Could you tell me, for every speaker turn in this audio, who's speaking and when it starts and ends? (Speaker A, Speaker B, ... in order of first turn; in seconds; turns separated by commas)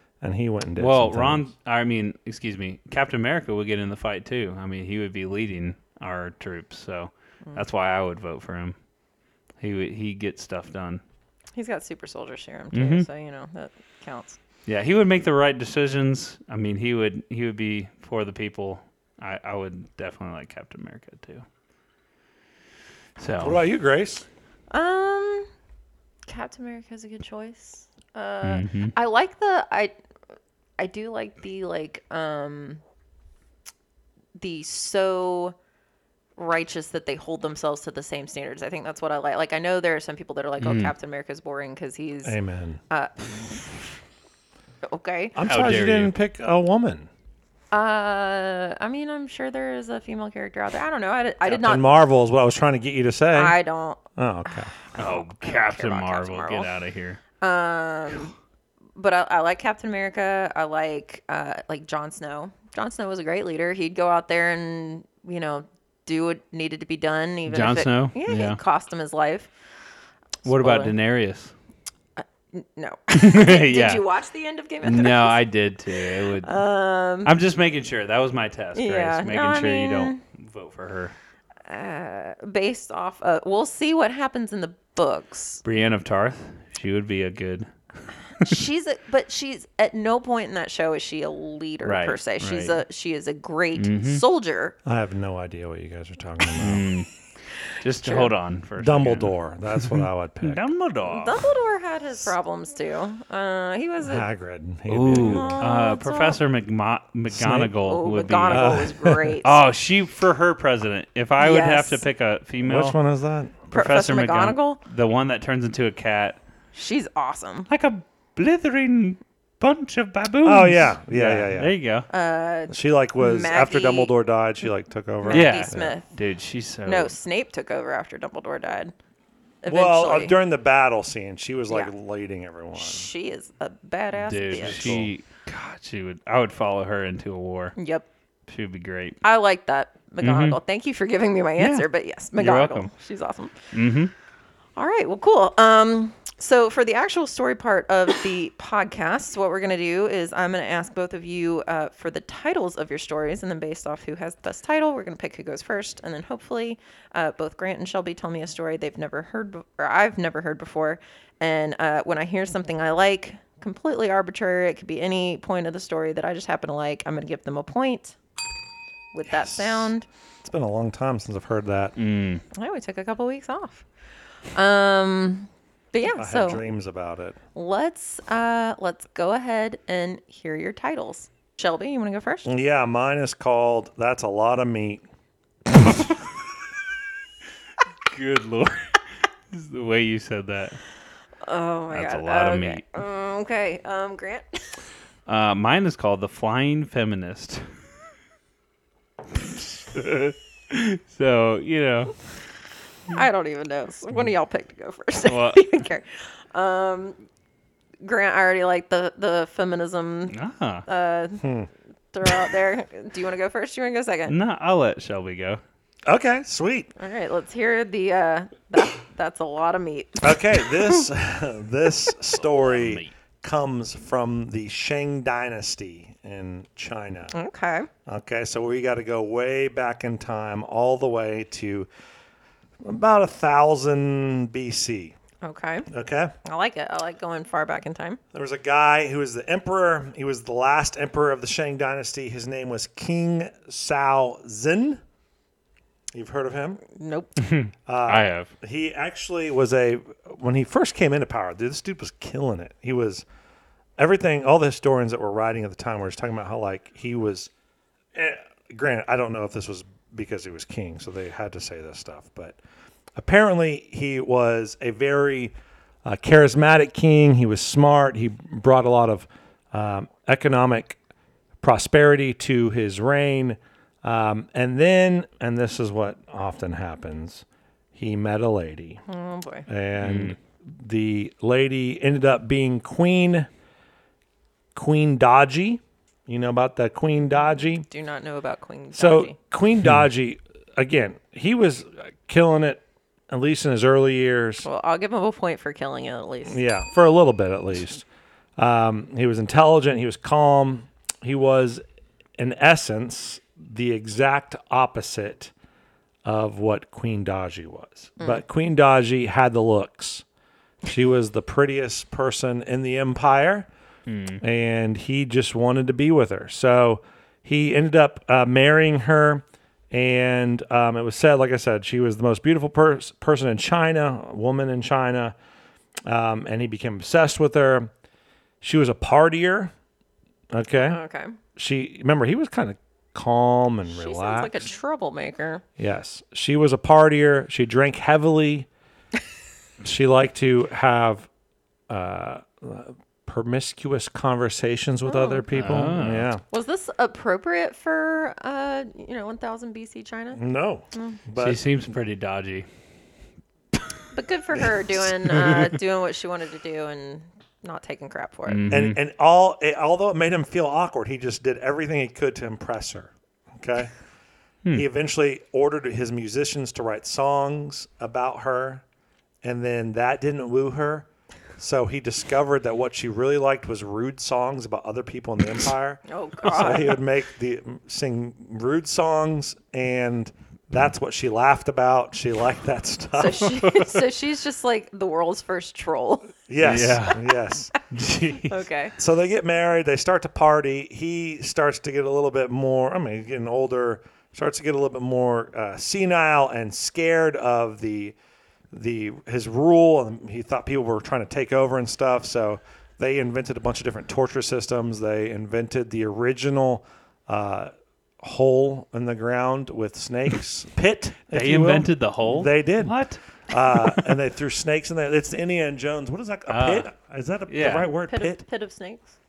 Speaker A: 0.2-1.5, Speaker B: 0.8-8.8, Speaker B: 9.6-11.0, Speaker C: 11.6-14.4, Speaker B: 12.7-13.1, Speaker B: 14.7-21.4, Speaker B: 23.2-23.6, Speaker A: 23.4-24.2, Speaker C: 24.7-25.5, Speaker C: 26.3-29.9, Speaker B: 28.4-28.9, Speaker C: 30.8-32.8, Speaker C: 34.4-35.5, Speaker C: 36.4-42.3, Speaker B: 40.6-40.9, Speaker A: 42.2-42.8, Speaker C: 42.9-43.6, Speaker C: 44.9-45.4, Speaker A: 45.4-47.1, Speaker B: 45.5-46.1, Speaker C: 47.7-52.0, Speaker A: 51.4-53.6, Speaker C: 53.3-54.0, Speaker A: 54.1-54.7, Speaker C: 54.8-56.7, Speaker B: 55.0-57.2, Speaker C: 57.4-58.3, Speaker C: 59.0-69.5, Speaker B: 67.5-68.6, Speaker C: 70.4-70.9, Speaker B: 70.4-71.5, Speaker C: 72.2-77.3, Speaker B: 73.1-74.0, Speaker B: 74.8-76.5, Speaker B: 77.2-81.2, Speaker C: 78.8-80.2, Speaker C: 81.7-85.6, Speaker B: 85.7-88.6, Speaker C: 88.4-94.8, Speaker B: 91.8-92.8, Speaker B: 93.8-94.2, Speaker A: 94.8-96.9, Speaker B: 96.6-97.1, Speaker B: 97.7-101.4, Speaker C: 98.0-98.3, Speaker A: 98.8-100.7, Speaker C: 101.1-104.3, Speaker A: 104.0-105.7, Speaker B: 104.9-108.9, Speaker C: 105.1-106.4, Speaker A: 107.3-107.7, Speaker C: 107.8-109.6, Speaker A: 108.5-109.3, Speaker B: 109.4-113.0, Speaker C: 111.4-112.0, Speaker A: 112.6-113.7, Speaker B: 113.7-116.4, Speaker C: 113.7-114.8, Speaker C: 116.7-117.7, Speaker B: 117.7-122.1, Speaker A: 120.4-121.7, Speaker C: 122.1-124.1, Speaker A: 122.7-126.0, Speaker C: 125.2-126.1, Speaker B: 125.3-127.2, Speaker C: 126.8-128.9, Speaker C: 129.6-130.3, Speaker A: 129.7-133.1, Speaker C: 132.8-135.0, Speaker B: 134.2-137.8, Speaker A: 134.5-135.1, Speaker C: 137.8-138.1, Speaker B: 138.5-139.2, Speaker C: 139.2-143.7, Speaker B: 140.2-140.6, Speaker B: 141.6-142.9, Speaker B: 143.7-144.1, Speaker C: 144.8-168.2, Speaker C: 169.1-170.1, Speaker A: 169.3-169.9, Speaker A: 170.4-171.9, Speaker B: 172.0-172.4, Speaker C: 172.5-173.9, Speaker C: 174.5-176.6, Speaker A: 176.1-177.4, Speaker C: 177.6-182.5, Speaker A: 182.4-185.1, Speaker B: 188.1-190.8, Speaker C: 191.4-194.7, Speaker B: 191.9-192.8, Speaker B: 195.3-197.7, Speaker B: 199.3-202.3, Speaker C: 203.1-207.2, Speaker B: 205.2-205.8, Speaker C: 208.0-210.3, Speaker B: 210.3-210.8, Speaker C: 210.8-211.5, Speaker A: 211.4-211.7, Speaker C: 212.1-214.3, Speaker B: 214.3-215.6, Speaker A: 216.1-216.9, Speaker C: 217.0-221.1, Speaker A: 220.2-227.3, Speaker B: 222.4-223.1, Speaker C: 227.3-227.9, Speaker A: 228.1-231.9, Speaker A: 232.8-235.2, Speaker C: 235.4-235.9, Speaker A: 235.9-236.3, Speaker C: 236.4-238.2, Speaker A: 238.3-245.0, Speaker A: 246.1-246.8, Speaker C: 246.8-247.3, Speaker B: 247.4-248.5, Speaker A: 247.9-253.3, Speaker A: 254.0-257.5, Speaker A: 258.1-262.6, Speaker A: 263.2-265.5, Speaker A: 266.1-271.0, Speaker A: 271.6-279.0, Speaker C: 279.1-279.7, Speaker A: 279.7-283.5, Speaker B: 280.0-280.4, Speaker A: 284.8-287.9, Speaker C: 287.8-289.4, Speaker A: 288.9-294.6, Speaker C: 294.6-296.6, Speaker A: 296.5-298.1, Speaker A: 298.6-301.8, Speaker A: 302.4-305.5, Speaker A: 306.2-310.2, Speaker A: 310.8-313.7, Speaker B: 314.1-314.4, Speaker A: 314.4-325.3, Speaker A: 326.1-327.9, Speaker A: 328.6-329.7, Speaker A: 330.5-331.0, Speaker C: 330.9-331.4, Speaker A: 331.6-334.6, Speaker C: 333.9-335.6, Speaker A: 335.8-338.7, Speaker A: 339.8-341.3, Speaker A: 341.9-346.4, Speaker C: 345.1-345.4, Speaker B: 345.5-346.3, Speaker C: 346.5-350.4, Speaker A: 350.3-351.6, Speaker C: 350.9-351.2, Speaker B: 351.4-352.7, Speaker C: 354.1-358.6, Speaker B: 355.3-355.7, Speaker B: 358.5-359.0, Speaker A: 358.7-363.9, Speaker A: 364.7-368.8, Speaker A: 369.4-383.9, Speaker C: 376.1-377.0, Speaker C: 383.2-386.3, Speaker A: 386.5-387.7, Speaker B: 386.6-387.3, Speaker B: 387.9-388.7, Speaker C: 388.5-388.9, Speaker A: 389.0-398.2, Speaker A: 398.7-413.0, Speaker B: 411.3-413.2, Speaker A: 413.5-418.4, Speaker B: 416.5-416.9, Speaker B: 417.5-417.9, Speaker C: 418.1-419.1